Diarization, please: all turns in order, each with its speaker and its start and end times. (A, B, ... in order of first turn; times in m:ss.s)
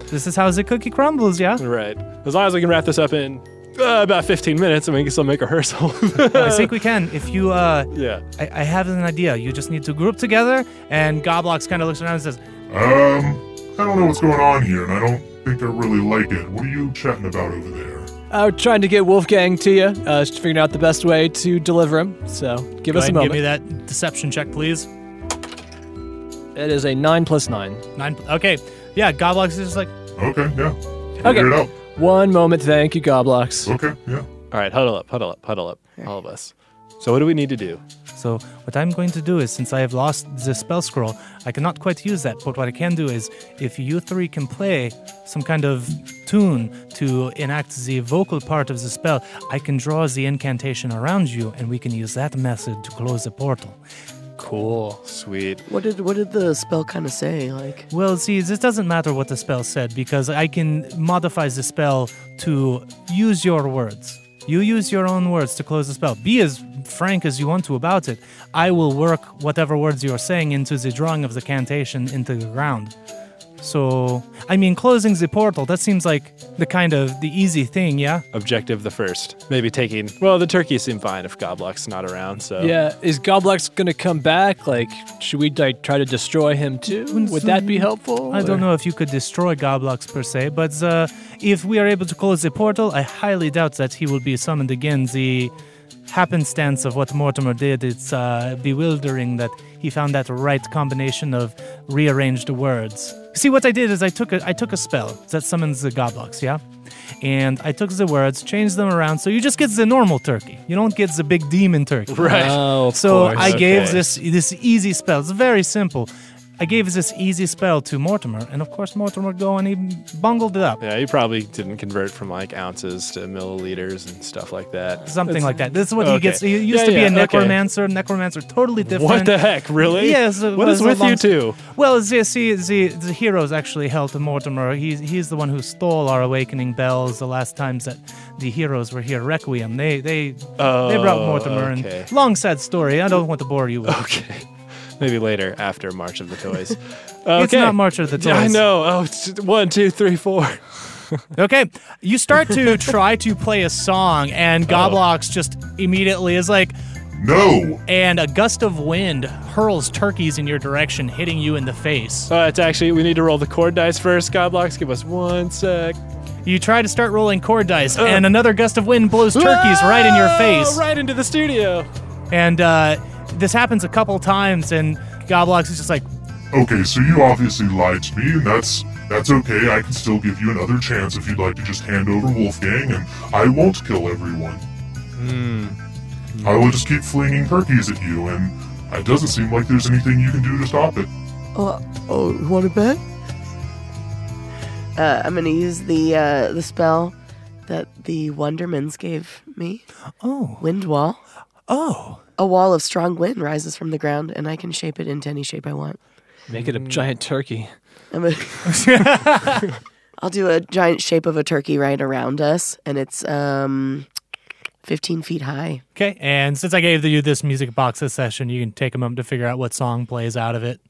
0:00.1-0:01.6 A
0:01.6-0:06.8 B
0:06.2-0:12.4 A
0:07.9-0:08.2 B
0:12.7-0:18.1 C
0:18.3-0:23.4 D
0:22.9-0:24.9 A
0:26.5-0:27.8 D
0:28.0-0:29.9 A
0:30.2-0:31.7 C
0:31.2-0:33.7 D
0:33.6-0:34.2 C
0:34.5-0:37.8 B
0:38.2-0:53.8 A
0:54.4-0:55.0 A
0:55.0-0:55.6 B
0:55.7-0:57.9 E
0:57.9-1:12.9 A
1:13.6-1:18.2 A
1:18.3-1:22.7 B
1:22.6-1:28.6 D
1:27.1-1:35.5 A
1:36.1-1:46.6 A
1:47.2-2:00.8 A
1:52.1-1:52.6 B
1:52.2-1:53.7 D
1:53.2-1:54.1 B
2:00.8-2:07.6 B
2:05.1-2:24.0 A
2:08.8-2:11.6 B
2:20.6-2:22.1 B
2:23.8-2:31.2 B
2:27.4-2:28.6 A
2:31.3-2:36.7 A
2:34.7-2:35.0 B
2:37.1-2:37.8 C
2:37.9-2:42.3 A
2:42.3-2:46.0 B
2:46.4-2:50.8 A
2:47.9-2:48.3 B
2:49.3-2:51.9 B
2:52.3-2:56.0 A
2:56.5-3:04.6 C
3:05.3-3:05.7 D
3:06.4-3:11.1 C
3:11.5-3:13.0 E
3:15.0-3:17.1 E
3:17.7-3:19.8 E
3:20.2-3:20.6 A
3:20.6-3:21.2 E
3:21.7-3:22.2 A
3:22.4-3:26.0 E
3:26.5-3:27.7 D
3:26.5-3:27.0 B
3:28.1-3:29.0 E
3:28.6-3:29.7 A
3:30.2-3:34.1 E
3:34.8-3:35.8 E
3:35.9-3:40.8 A